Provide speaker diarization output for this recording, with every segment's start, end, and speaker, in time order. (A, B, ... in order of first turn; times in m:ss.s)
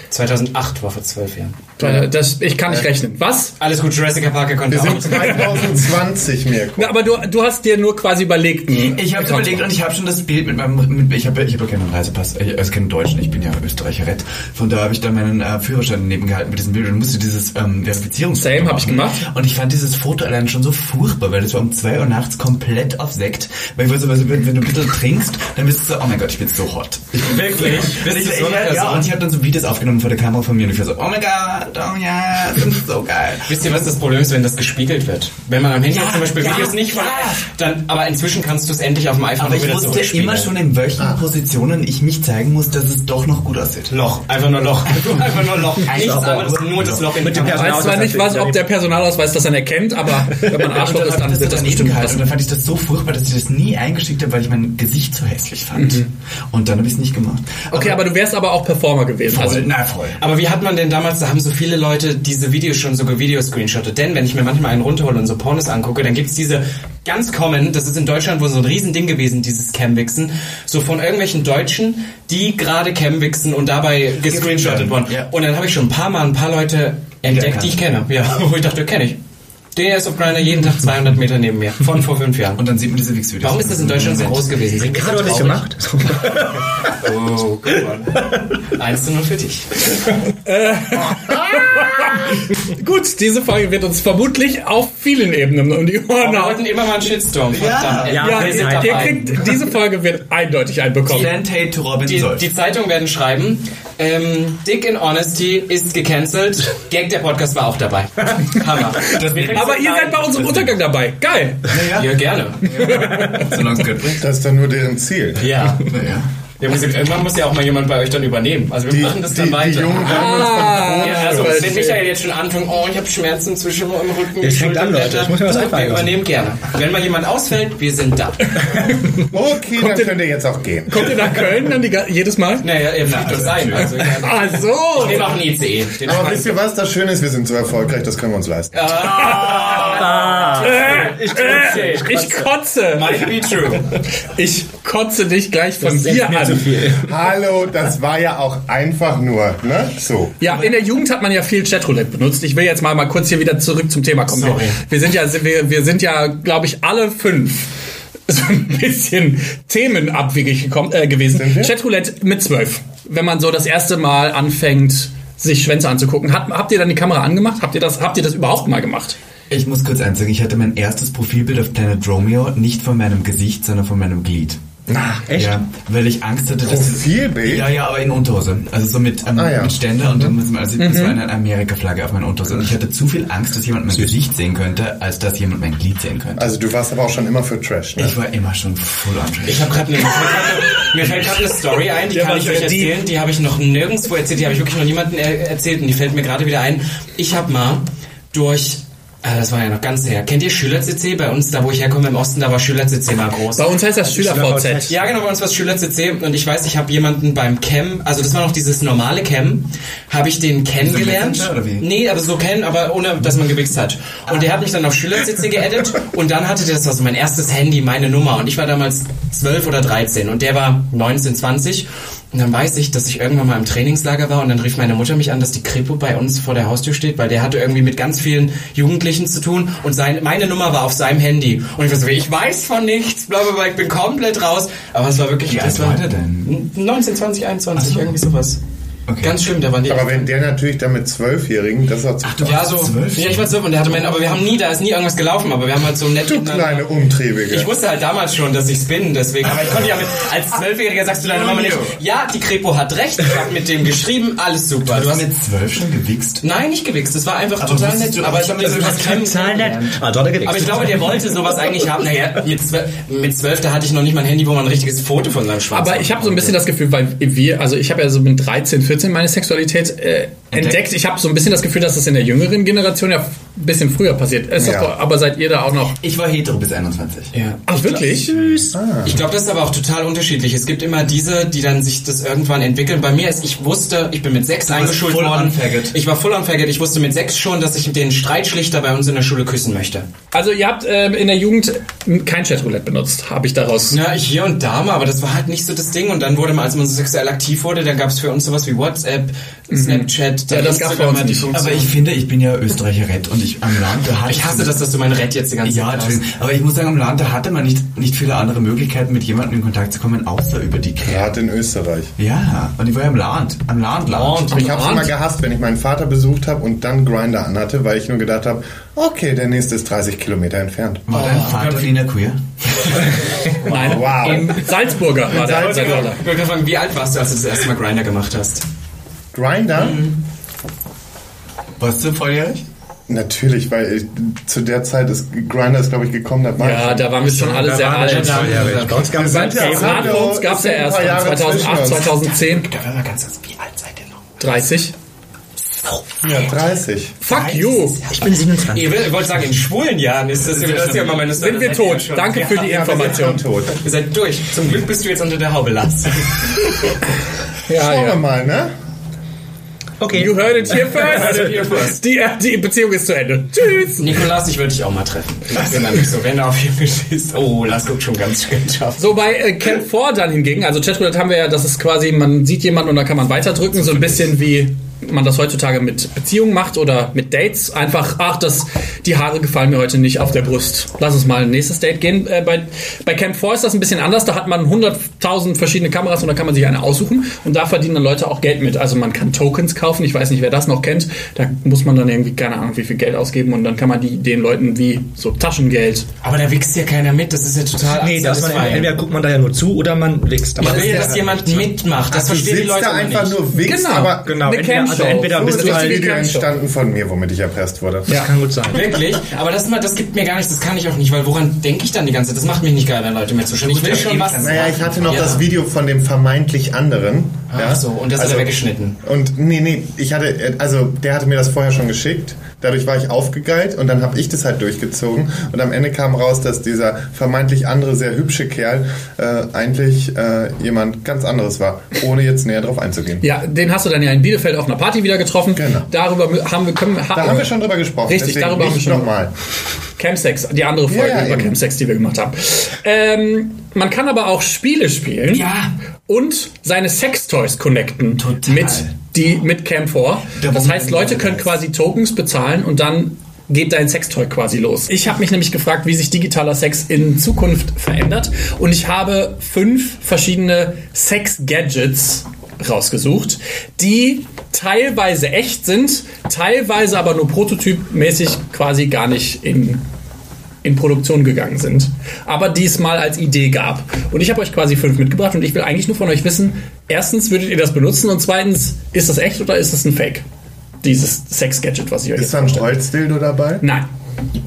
0:00.1-0:01.6 A
0:01.8-0:03.6 B
0:03.6-0:05.7 A
0:04.7-0:07.0 C
0:05.1-0:05.7 B
0:06.8-0:09.7 B
0:08.7-0:33.9 D
0:18.4-0:19.3 B
0:27.2-0:29.1 A
0:33.5-0:40.5 A
0:35.9-0:37.5 D
0:39.4-0:43.9 D
0:43.9-0:48.0 A
0:45.9-0:47.4 D
0:45.9-0:48.6 E
0:47.3-0:52.2 B
0:50.5-0:58.0 D
0:55.8-0:56.1 B
0:57.7-0:59.7 B
0:59.3-1:00.2 D
1:00.2-1:19.2 A
1:14.3-1:15.3 D
1:17.2-1:17.8 D
1:19.7-1:22.6 A
1:22.6-1:24.5 D
1:23.4-1:25.6 A
1:24.8-1:26.8 E
1:26.8-1:29.8 A
1:30.4-1:36.7 B
1:36.2-1:39.4 A
1:37.5-1:38.7 D
1:38.1-1:39.3 E
1:38.1-1:41.3 B
1:41.1-1:42.5 D
1:42.0-1:50.4 A
1:49.1-1:49.8 D
1:49.5-1:51.8 B
1:50.4-1:50.7 D
1:51.7-1:54.2 D
1:51.9-1:53.0 A
1:52.7-1:53.6 B
1:54.2-1:55.5 C
1:55.4-1:55.8 A
1:55.8-1:56.3 D
1:56.6-2:08.5 A
1:58.9-2:01.8 C
2:00.0-2:02.1 B
2:04.4-2:06.2 E
2:08.6-2:09.2 B
2:09.2-2:11.2 C
2:09.8-2:10.2 B
2:10.9-2:12.7 B
2:12.6-2:16.5 A
2:13.1-2:13.9 D
2:14.0-2:15.4 B
2:16.0-2:18.9 C
2:18.7-2:22.3 A
2:19.1-2:19.6 B
2:19.5-2:22.5 E
2:20.6-2:23.4 B
2:22.9-2:23.9 A
2:24.2-2:26.8 B
2:25.8-2:27.2 E
2:27.0-2:30.4 C
2:30.4-2:37.7 B
2:34.3-2:34.8 A
2:38.3-2:49.2 B
2:41.3-2:41.7 C
2:49.5-2:54.6 D
2:54.9-2:55.6 E
2:55.4-3:06.6 D
2:56.6-2:57.8 C
2:59.3-2:59.8 C
3:00.8-3:01.2 B
3:06.4-3:08.2 C
3:08.0-3:09.8 D
3:09.5-3:23.7 A
3:12.1-3:13.0 B
3:23.6-3:25.0 B
3:24.0-3:25.0 E
3:24.9-3:58.6 A
3:30.8-3:31.9 D
3:55.5-3:56.6 D
3:57.8-3:58.2 D
3:59.1-3:59.5 D
3:59.2-4:00.3 A
3:59.9-4:02.7 C
4:02.2-4:03.5 D
4:02.4-4:06.9 A
4:06.2-4:07.7 C
4:07.5-4:15.2 A
4:11.2-4:12.0 D
4:14.8-4:16.4 D
4:16.4-4:26.6 A
4:17.6-4:19.2 D
4:18.6-4:21.4 E
4:25.7-4:36.0 B
4:30.5-4:30.8 D
4:34.6-4:34.9 C
4:36.0-4:37.3 D
4:37.3-4:37.6 A
4:37.7-4:38.6 B
4:38.2-4:38.7 E
4:38.7-4:39.1 C
4:39.1-4:50.1 A
4:44.7-4:46.0 D
4:50.3-4:54.0 B
4:53.9-5:01.9 A
4:59.7-5:01.8 B
5:01.5-5:04.8 D
5:04.3-5:06.2 A
5:05.6-5:11.4 D
5:11.0-5:12.1 C
5:12.2-5:14.5 D
5:14.1-5:14.7 A
5:14.5-5:15.2 B
5:14.6-5:21.0 C
5:21.1-5:23.2 D
5:21.1-5:22.0 A
5:23.4-5:24.6 A
5:23.7-5:24.6 C
5:23.7-5:26.2 B
5:25.3-5:26.1 C
5:25.3-5:28.6 A
5:29.3-5:30.0 C
5:29.8-5:30.2 A
5:31.8-5:32.6 D
5:33.1-5:37.2 C
5:36.6-5:42.7 B
5:37.3-5:40.1 E
5:38.0-5:40.2 A
5:39.0-5:42.1 C
5:42.2-5:44.2 A
5:44.4-5:45.0 B
5:45.7-5:46.0 A
5:46.2-5:47.2 C
5:47.2-5:48.0 B
5:47.3-5:48.0 D
5:48.1-5:49.1 E
5:48.2-5:52.9 A
5:50.5-5:51.2 D
5:51.2-5:53.4 B
5:52.4-5:53.8 C
5:53.8-5:56.4 A
5:57.7-5:58.2 B
5:57.7-5:58.7 C
6:00.0-6:00.5 E
6:00.1-6:04.2 B
6:00.9-6:02.0 A
6:04.0-6:09.2 A
6:09.0-6:36.1 B
6:36.2-6:38.9 A
6:37.9-6:41.7 E
6:40.6-6:41.2 C
6:40.6-6:43.4 A
6:42.1-6:48.1 C
6:43.6-6:46.5 B
6:44.3-6:46.2 E
6:48.1-6:49.0 E
6:48.7-6:55.4 A
6:53.6-6:55.4 D
6:54.4-7:13.2 C
6:57.5-6:59.0 A
7:13.2-7:17.5 B
7:15.5-7:15.9 C
7:17.1-7:19.3 C
7:18.1-7:19.2 B
7:20.0-7:25.5 B
7:20.9-7:21.6 C
7:25.3-7:25.7 D
7:26.1-7:49.8 B
7:28.2-7:29.0 D
7:30.4-7:31.6 D
7:50.6-8:00.2 B
8:00.8-8:02.7 B
8:02.2-8:03.6 C
8:03.6-8:03.9 B